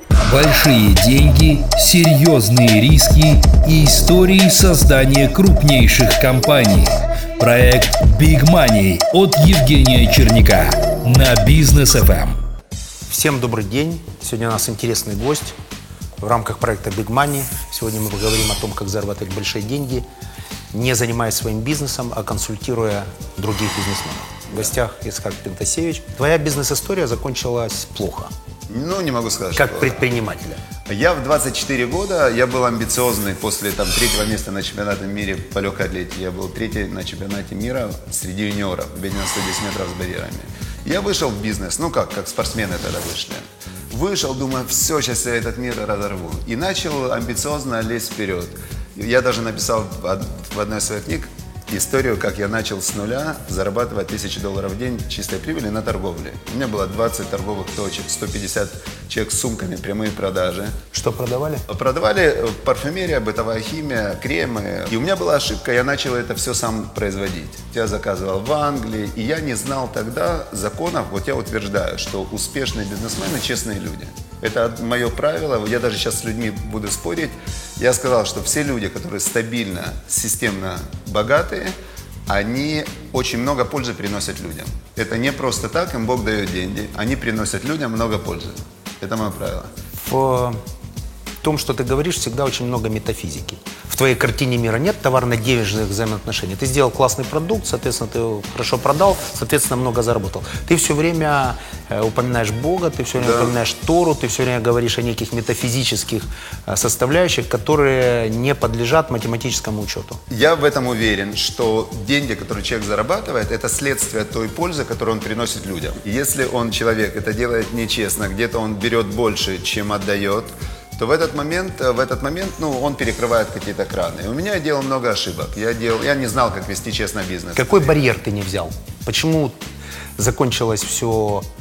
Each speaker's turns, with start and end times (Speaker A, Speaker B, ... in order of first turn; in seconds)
Speaker A: 0.2-12.4
Speaker B: 13.1-15.5, 16.2-20.0, 20.7-28.3, 29.6-30.6, 60.9-61.6, 90.0-90.6, 91.4-110.2, 127.5-129.6, 130.2-131.4
Speaker C: 28.7-30.0, 30.9-60.8, 61.7-81.7, 82.3-89.7, 103.2-103.5, 110.3-128.0